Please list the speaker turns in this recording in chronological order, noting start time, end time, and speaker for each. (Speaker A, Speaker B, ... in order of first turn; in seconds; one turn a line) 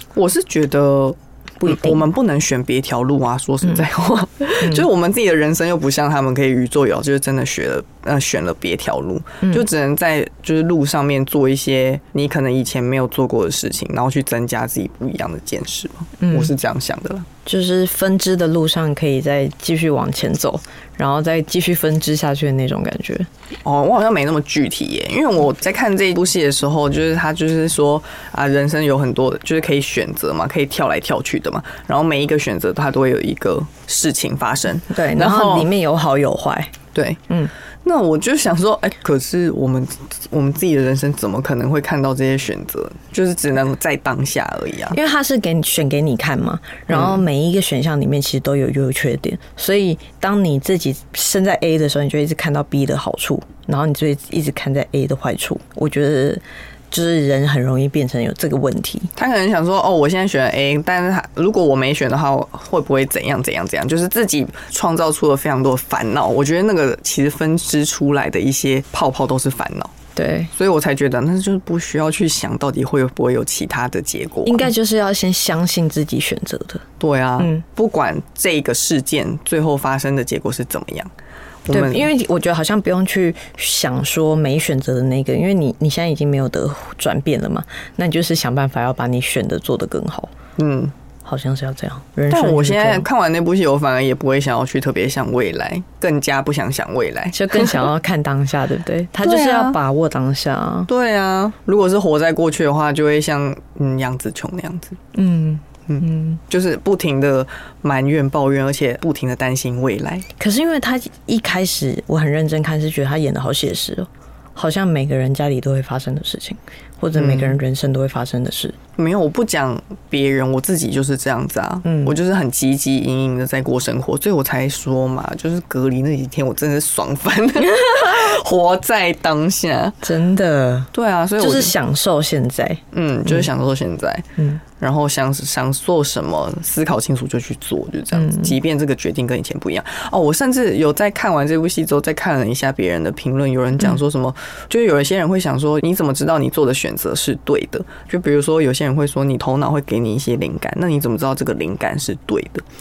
Speaker A: 0.1-17.3
Speaker B: 1.6-2.0
Speaker B: 16.2-16.5
Speaker B: 17.5-23.3
Speaker A: 23.6-35.7
Speaker B: 34.9-36.8
Speaker A: 36.9-37.2
Speaker A: 37.8-45.0
Speaker B: 44.9-59.1
Speaker A: 46.9-47.2
Speaker A: 59.2-69.9
Speaker B: 70.2-70.5
Speaker A: 70.5-74.7
Speaker B: 74.5-76.8
Speaker A: 77.0-81.1
Speaker B: 77.4-77.6
Speaker A: 81.7-82.1
Speaker B: 81.7-90.3
Speaker A: 90.6-90.9
Speaker B: 91.2-93.1
Speaker A: 92.3-97.9
Speaker B: 97.3-100.9
Speaker A: 99.2-99.8
Speaker A: 100.9-105.0
Speaker B: 105.1-106.4
Speaker A: 105.9-110.3
Speaker B: 110.4-118.8
Speaker A: 117.2-117.6
Speaker A: 119.0-130.0
Speaker B: 121.8-122.2
Speaker B: 127.7-128.1
Speaker B: 130.0-133.5
Speaker A: 130.9-131.7
Speaker A: 132.9-134.3
Speaker B: 134.4-134.6
Speaker A: 134.8-152.7
Speaker B: 138.1-138.6